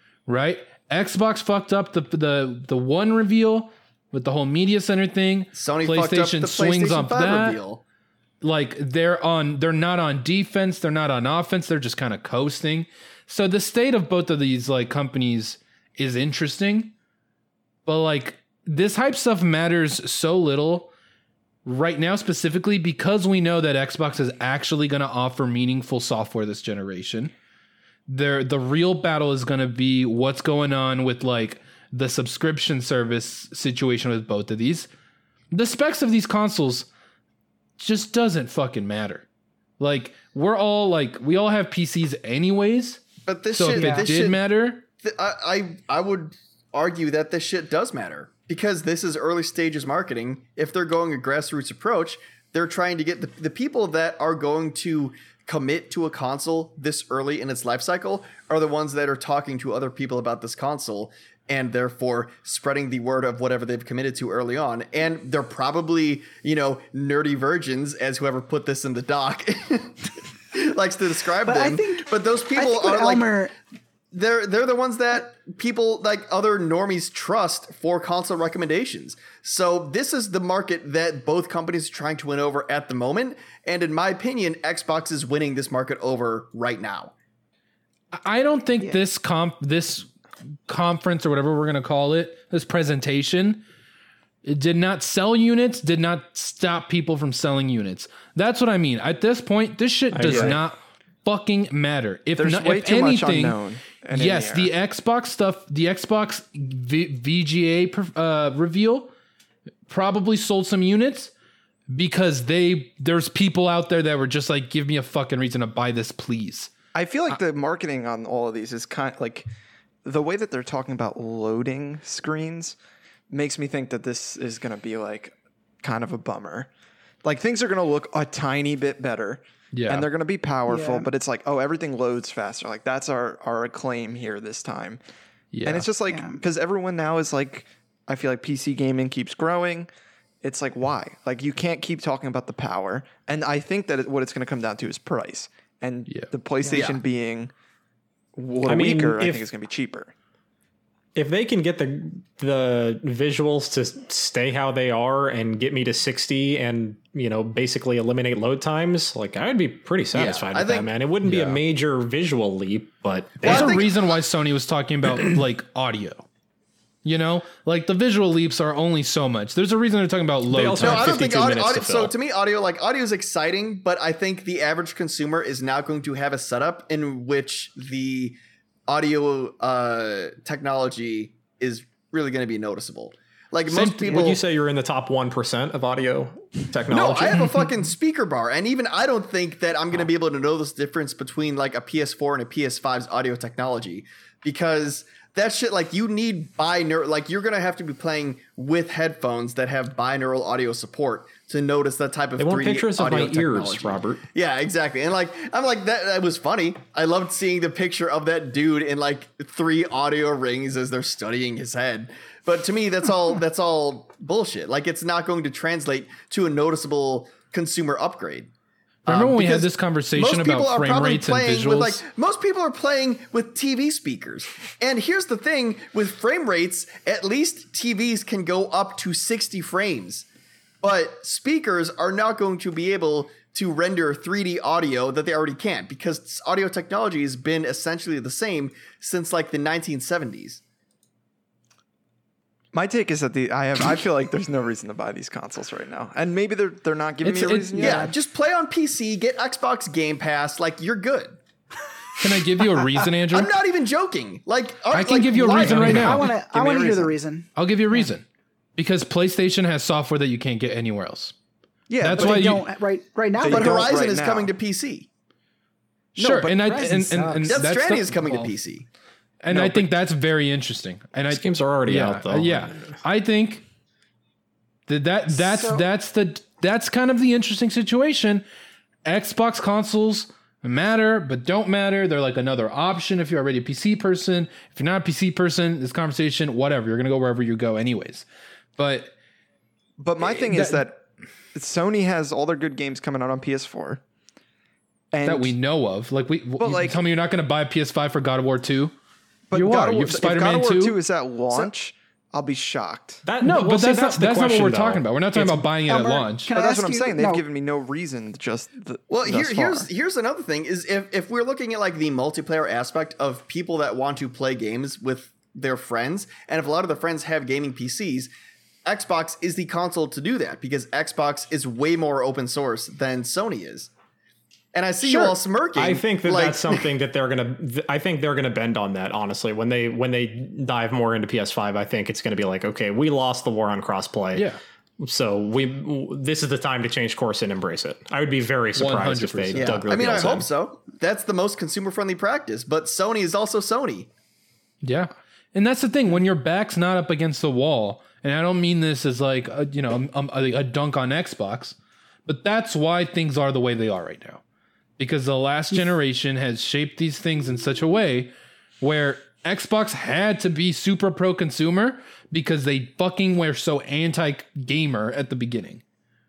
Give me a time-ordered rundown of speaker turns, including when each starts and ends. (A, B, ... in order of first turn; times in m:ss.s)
0:00.3-0:07.6 A
0:05.5-0:07.8 B
0:08.4-0:16.9 A
0:17.9-0:20.9 A
0:21.6-0:27.3 A
0:28.1-0:34.9 A
0:35.5-0:36.9 A
0:37.8-0:39.2 A
0:39.8-0:44.8 A
0:43.3-0:44.4 B
0:43.7-0:44.1 C
0:45.0-1:13.3 B
1:11.4-1:13.5 C
1:14.1-1:27.1 B
1:28.1-1:30.1 A
1:30.7-1:33.6 A
1:34.4-1:43.6 A
1:40.1-1:40.6 D
1:40.2-1:40.6 E
1:42.4-1:44.7 E
1:44.1-1:49.1 A
1:49.9-1:51.3 A
1:51.9-1:56.7 A
1:56.9-1:59.5 E
2:00.0-2:02.8 E
2:03.3-2:06.7 E
2:07.2-2:15.0 E
2:09.7-2:10.1 A
2:10.7-2:11.1 C
2:15.5-2:15.9 A
2:15.6-2:19.9 E
2:16.1-2:16.4 C
2:20.4-2:27.5 E
2:26.6-2:27.0 C
2:28.4-2:30.1 E
2:28.6-2:29.5 D
2:31.2-2:43.8 D
2:40.1-2:40.9 B
2:41.2-2:41.6 A
2:43.4-2:44.0 B
2:43.4-2:46.2 A
2:47.0-2:51.2 A
2:50.5-2:52.1 D
2:50.8-3:04.4 B
3:03.7-3:04.2 A
3:04.0-3:07.5 D
3:06.9-3:38.5 B
3:22.4-3:24.2 D
3:39.1-3:50.3 B
3:39.1-3:42.0 A
3:50.8-4:00.6 B
4:02.7-4:08.1 E
4:07.2-4:08.0 A
4:07.8-4:11.4 B
4:07.8-4:08.1 C
4:12.2-4:13.5 A
4:13.3-4:17.2 B
4:14.9-4:16.3 A
4:15.3-4:18.1 C
4:17.6-4:18.2 A
4:18.8-4:21.4 A
4:21.9-4:22.6 E
4:22.0-4:22.7 A
4:22.1-4:23.9 C
4:23.4-4:24.5 E
4:23.5-4:25.1 B
4:26.2-4:28.5 A
4:26.2-4:26.7 E
4:26.2-4:27.5 C
4:27.5-4:28.9 B
4:29.4-4:33.6 A
4:29.5-4:29.9 E
4:31.3-4:33.0 D
4:34.9-4:38.4 A
4:35.4-4:35.8 C
4:39.0-4:48.2 A
4:48.8-4:49.1 A
4:50.0-4:51.0 E
4:50.2-4:50.8 A
4:51.5-4:54.0 E
4:55.1-4:55.6 E
4:55.2-4:59.0 A
4:56.6-4:57.0 E
4:59.5-5:03.2 E
4:59.5-5:01.0 A
5:03.2-5:05.7 D
5:03.4-5:06.5 A
5:05.9-5:07.4 C
5:06.5-5:09.9 E
5:09.1-5:18.3 B
5:18.8-5:23.9 B
5:24.7-5:26.9 B
5:25.0-5:25.4 A
5:25.8-5:34.5 D
5:34.3-5:34.6 A
5:35.0-5:40.5 D
5:38.8-5:39.8 A
5:39.6-5:44.1 B
5:44.8-5:54.4 A
5:55.0-6:05.8 A